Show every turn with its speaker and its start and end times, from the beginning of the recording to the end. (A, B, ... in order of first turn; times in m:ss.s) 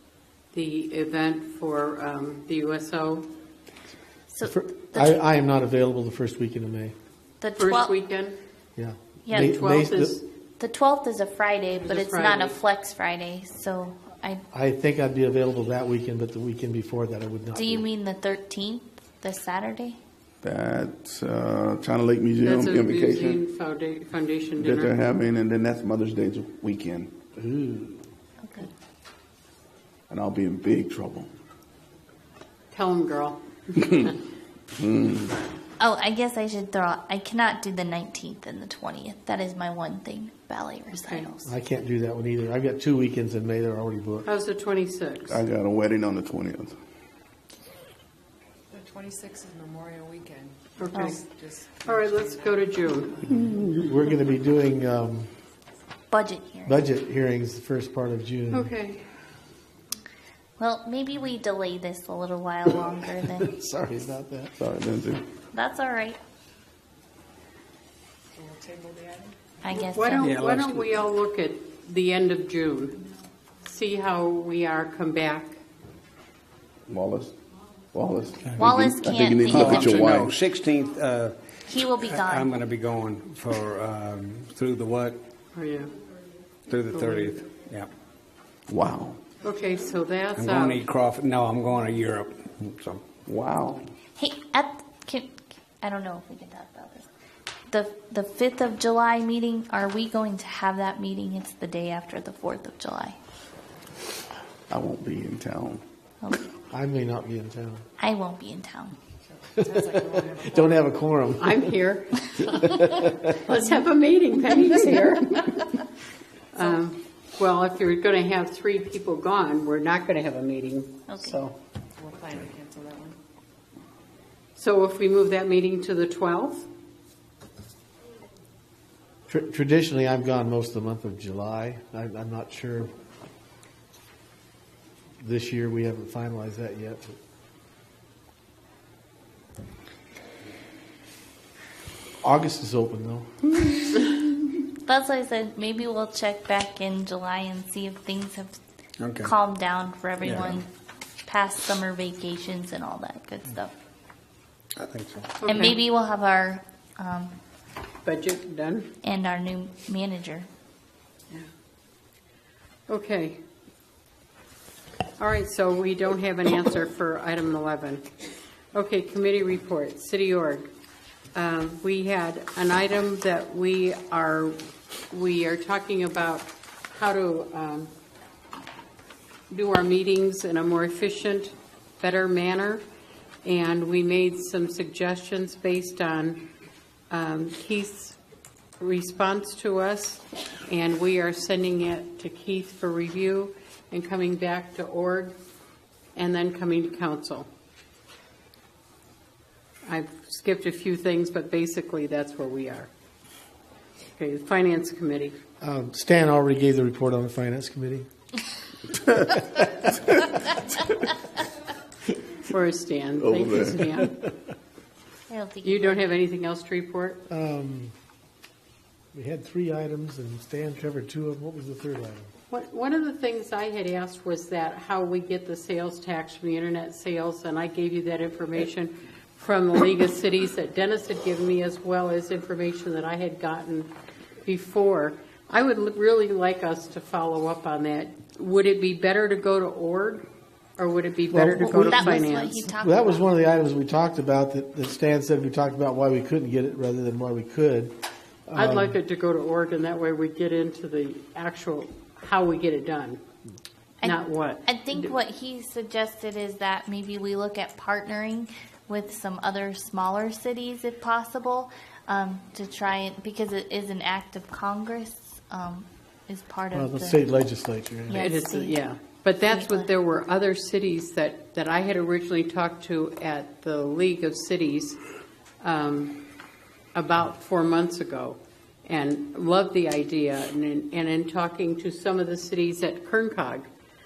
0:00.5-0:03.3 A
0:04.3-0:05.2 B
0:04.4-0:06.9 C
0:07.4-0:07.9 B
0:07.6-0:08.4 A
0:08.8-0:10.2 C
0:09.3-0:09.6 B
0:09.3-0:10.2 A
0:10.6-0:14.4 B
0:11.8-0:12.6 A
0:14.5-0:17.8 C
0:17.5-0:20.0 B
0:20.4-0:23.4 D
0:22.4-0:25.0 A
0:24.6-0:28.0 D
0:28.4-0:28.7 B
0:30.1-0:31.3 D
0:32.7-0:34.2 A
0:34.8-0:35.4 D
0:35.8-0:41.5 B
0:41.0-0:41.3 A
0:41.4-0:44.3 C
0:44.2-0:45.4 A
0:45.3-0:46.8 D
0:48.7-0:52.7 E
0:50.8-0:51.2 A
0:51.8-0:53.2 A
0:53.2-0:55.3 C
0:56.1-0:56.8 B
0:56.6-0:58.7 C
0:58.5-0:59.0 A
1:00.6-1:03.5 B
1:03.4-1:04.5 C
1:04.6-1:05.2 D
1:05.5-1:06.2 B
1:08.4-1:09.3 E
1:09.6-1:10.3 B
1:09.7-1:13.0 A
1:10.2-1:11.0 F
1:13.6-1:15.6 A
1:16.9-1:17.3 D
1:17.9-1:20.4 D
1:18.6-1:20.0 B
1:19.4-1:21.4 F
1:21.7-1:22.5 B
1:22.1-1:25.2 F
1:25.5-1:25.9 A
1:26.7-1:27.9 F
1:26.9-1:27.3 A
1:28.7-1:29.2 D
1:29.4-1:30.8 A
1:30.4-1:33.2 F
1:33.2-1:33.9 D
1:34.2-1:37.1 B
1:37.7-1:43.2 B
1:44.7-1:45.8 D
1:46.7-1:47.8 C
1:48.0-1:49.0 B
1:49.4-1:50.8 E
1:49.6-1:51.7 C
1:51.4-1:55.6 A
1:52.5-1:53.2 C
1:56.5-2:01.6 A
2:01.1-2:01.4 B
2:02.0-2:03.2 E
2:04.6-2:06.7 A
2:09.3-2:12.9 C
2:15.2-2:17.2 C
2:22.2-2:23.8 C
2:24.8-2:28.5 B
2:29.0-2:29.3 F
2:29.2-2:30.7 B
2:30.2-2:30.6 F
2:31.3-2:33.7 B
2:34.8-2:35.4 F
2:35.4-2:35.8 A
2:35.4-2:37.4 B
2:38.0-2:38.9 A
2:39.0-2:40.5 B
2:42.9-2:43.4 A
2:45.2-2:48.1 A
2:48.7-2:50.7 A
2:51.3-2:54.6 A
2:55.1-2:57.9 A
2:59.5-3:02.8 A
3:03.4-3:06.4 A
3:07.1-3:08.2 A
3:08.8-3:15.4 A
3:16.1-3:17.5 A
3:19.8-3:22.9 A
3:24.2-3:25.4 A
3:25.6-3:28.1 C
3:29.2-3:30.1 C
3:32.4-3:34.3 A
3:33.2-3:33.8 D
3:35.3-3:36.2 B
3:35.6-3:37.2 A
3:37.3-3:37.9 C
3:39.1-3:42.3 C
3:42.5-3:53.9 A
3:54.4-4:00.2 A
4:00.8-4:02.7 A
4:01.3-4:02.1 C
4:01.6-4:03.2 B
4:02.8-4:08.0 C
4:08.5-4:09.0 C
4:08.5-4:13.2 A
4:14.0-4:27.3 B
4:14.0-4:15.1 A
4:26.7-4:28.2 C
4:28.1-4:28.9 B
4:28.1-4:35.0 A
4:29.5-4:29.9 B
4:35.6-4:36.2 A
4:36.9-4:43.7 A